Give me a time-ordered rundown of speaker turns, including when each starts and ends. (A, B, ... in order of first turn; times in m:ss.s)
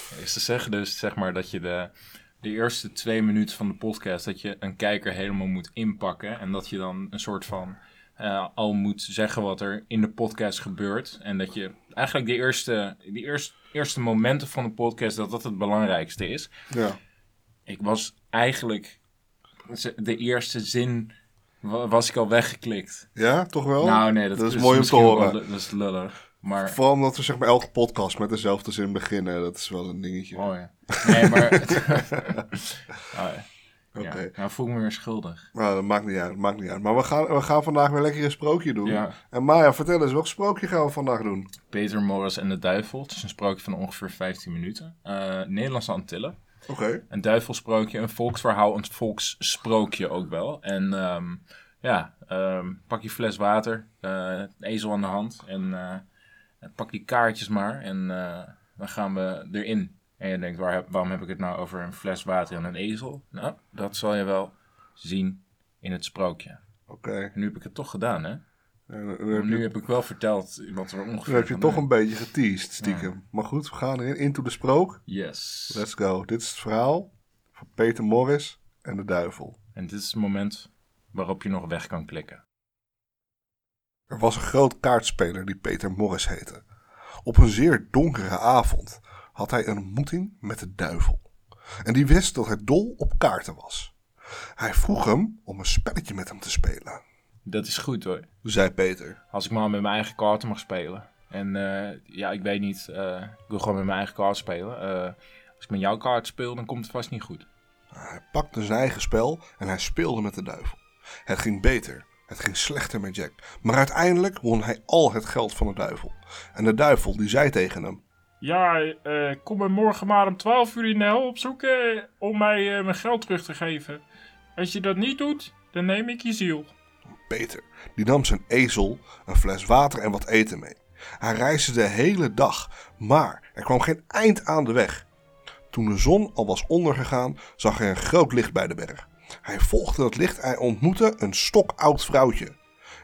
0:00.1-0:16.5 A
0:16.7-0:17.0 B
0:17.7-0:19.0 A
0:19.7-0:23.1 A
0:23.2-0:25.4 B
0:23.8-0:26.8 A
0:26.6-0:32.2 B
0:30.3-0:33.5 A
0:34.0-0:34.3 B
0:34.0-0:35.5 A
0:35.5-0:41.5 B
0:38.8-0:39.2 A
0:41.7-0:46.4 A
0:46.7-0:47.0 B
0:47.1-0:56.0 A
0:56.6-1:06.6 A
1:06.9-1:07.3 B
1:07.3-1:08.4 A
1:08.9-1:09.6 B
1:09.3-1:11.9 A
1:11.3-1:15.0 B
1:12.8-1:13.1 A
1:15.1-1:15.8 A
1:15.7-1:19.6 B
1:19.8-1:22.4 A
1:24.1-1:26.6 B
1:27.2-1:31.3 B
1:31.8-1:33.9 B
1:34.6-1:37.0 B
1:37.5-1:38.3 A
1:38.4-1:39.2 B
1:39.3-1:47.5 A
1:47.9-1:58.0 B
1:58.4-2:04.0 C
2:04.6-2:06.7 C
2:07.3-2:15.1 B
2:15.7-2:22.6 B